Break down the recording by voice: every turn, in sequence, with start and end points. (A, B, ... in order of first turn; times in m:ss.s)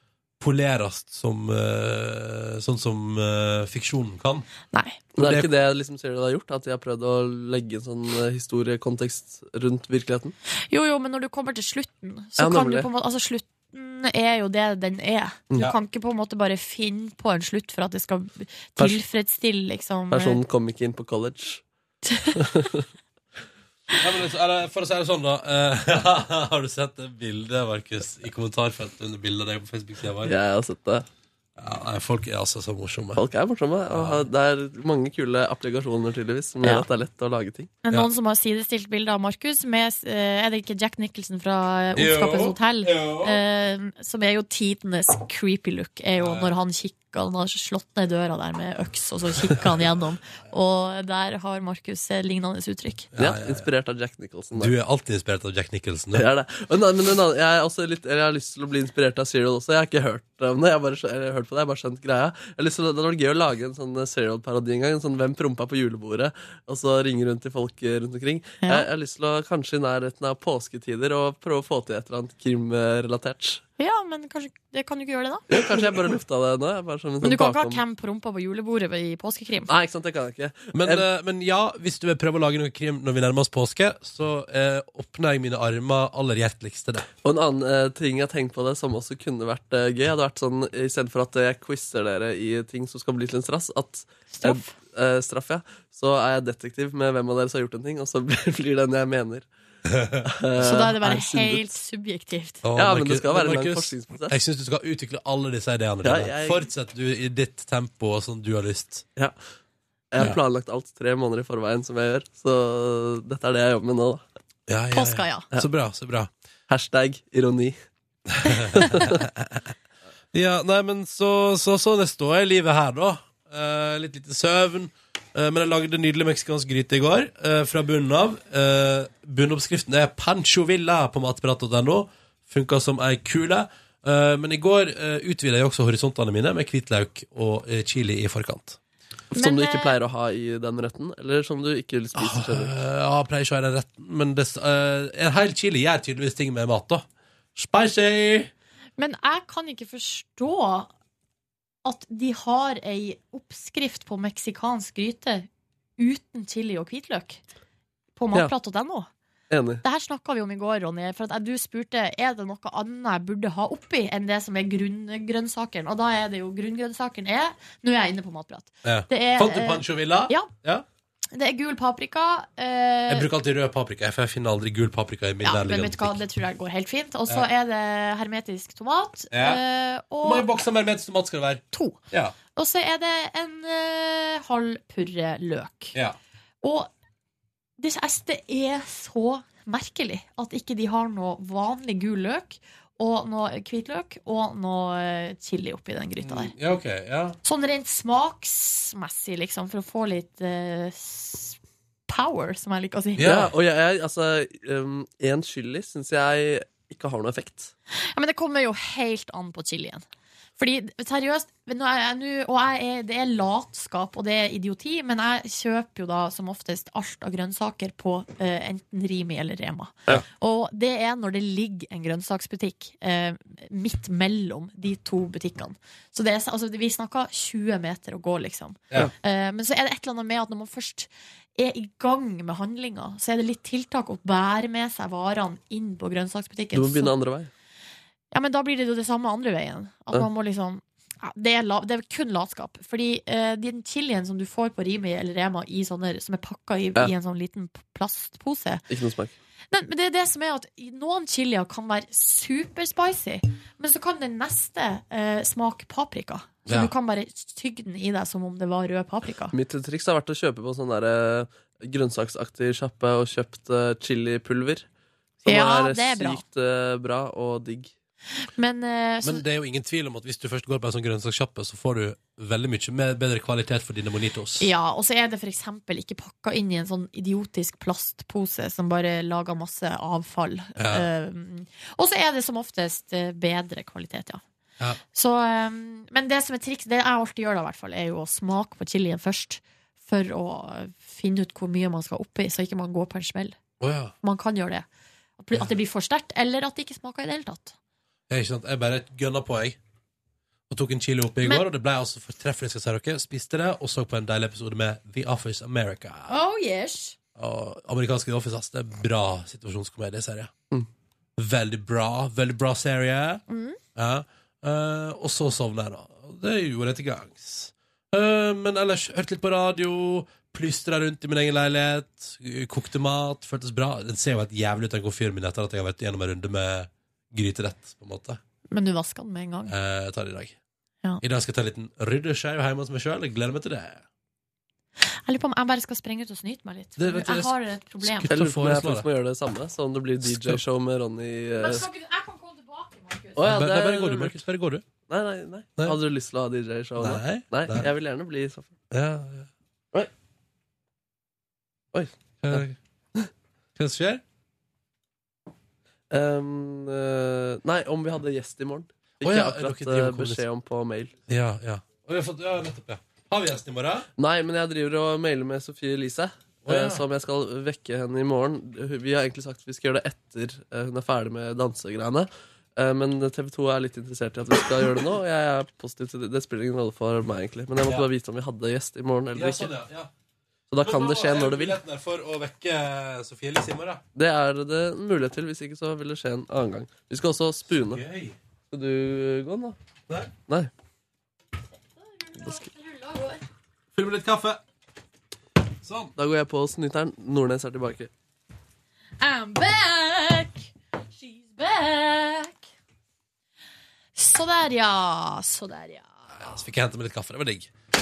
0:00.4-0:04.4 A
0:04.7-0:05.0 B
0:05.2-0:05.5 A
0:05.2-0:10.3 C
0:10.7-0:20.4 B
0:12.4-0:12.9 C
0:20.1-0:21.6 C
0:22.3-0:22.9 C
0:24.0-0:30.3 A
0:30.2-0:31.0 C
0:31.6-0:33.2 A
0:33.2-0:37.7 C
0:33.8-0:34.2 A
0:37.8-0:53.1 B
0:41.9-0:43.4 A
0:46.2-0:46.5 A
0:53.1-0:53.7 A
0:53.2-0:54.7 C
0:54.6-0:56.2 A
0:56.1-1:13.6 C
1:08.6-1:08.9 B
1:13.8-1:15.5 B
1:15.5-1:17.8 C
1:17.2-1:19.7 B
1:19.7-1:21.0 C
1:20.7-1:27.1 A
1:27.2-1:39.5 C
1:34.3-1:34.7 B
1:39.9-1:40.8 A
1:40.2-1:41.7 C
1:40.6-1:42.6 B
1:42.6-1:49.0 A
1:42.8-1:44.4 C
1:46.0-1:46.7 C
1:50.1-1:54.2 C
1:54.7-1:56.3 A
1:54.9-1:55.5 B
1:56.7-1:57.8 C
1:58.4-1:59.6 A
1:58.8-1:59.2 C
2:00.3-2:18.8 A
2:19.3-2:19.9 B
2:19.3-2:22.7 C
2:22.1-2:28.5 A
2:29.0-2:30.9 B
2:31.8-2:37.4 B
2:38.2-2:39.1 B
2:39.5-2:39.8 C
2:39.8-2:50.5 B
2:48.8-2:50.8 A
2:51.3-2:53.3 B
2:53.1-2:56.2 A
2:55.4-3:00.5 B
2:59.3-2:59.6 A
3:00.2-3:02.3 A
3:01.7-3:02.0 B
3:02.5-3:06.0 B
3:06.6-3:06.9 B
3:07.8-3:16.5 B
3:16.2-3:17.4 A
3:17.4-3:21.6 B
3:22.1-3:23.3 B
3:23.2-3:23.5 A
3:23.2-3:27.7 C
3:27.9-3:30.0 B
3:30.6-3:57.1 B
3:56.7-3:57.5 C
3:58.3-4:08.8 B
4:08.9-4:09.3 C
4:09.7-4:19.5 B
4:16.7-4:16.9 A
4:19.5-4:24.9 C
4:25.4-4:27.9 C
4:25.4-4:26.4 B
4:28.6-4:29.4 B
4:29.2-4:34.7 A
4:34.6-4:44.4 B
4:40.8-4:41.1 A
4:45.1-4:53.6 B
4:53.8-4:54.1 A
4:54.2-4:54.9 B
4:55.4-4:57.8 B
4:58.3-4:59.8 A
5:00.7-5:06.3 A
5:06.3-5:07.2 B
5:07.4-5:10.5 A
5:11.4-5:13.4 A
5:13.5-5:13.8 B
5:14.0-5:28.4 A
5:28.7-5:29.7 B
5:29.7-5:30.6 A
5:31.2-5:34.0 A
5:35.0-5:38.3 B
5:37.0-5:39.0 A
5:38.3-5:41.9 C
5:40.2-5:40.6 A
5:41.6-5:43.4 B
5:43.4-5:44.4 C
5:43.4-5:44.8 A
5:45.1-5:48.8 C
5:47.0-5:47.9 A
5:48.9-5:49.5 A
5:51.9-5:53.3 C
5:52.4-5:52.8 A
5:53.8-5:54.2 A
5:56.1-6:01.1 C
5:59.2-6:00.4 A
6:01.3-6:04.1 A
6:04.2-6:19.7 C
6:06.6-6:07.0 A
6:19.3-6:20.1 A
6:20.7-6:21.8 C
6:20.8-6:24.0 A
6:24.1-6:28.0 C
6:27.8-6:28.4 A
6:28.7-6:29.8 C
6:32.0-6:33.4 B
6:33.9-6:34.6 A
6:35.8-6:36.1 A
6:36.2-6:38.1 C
6:39.2-6:42.6 B
6:44.2-6:46.1 B
6:46.3-6:47.7 A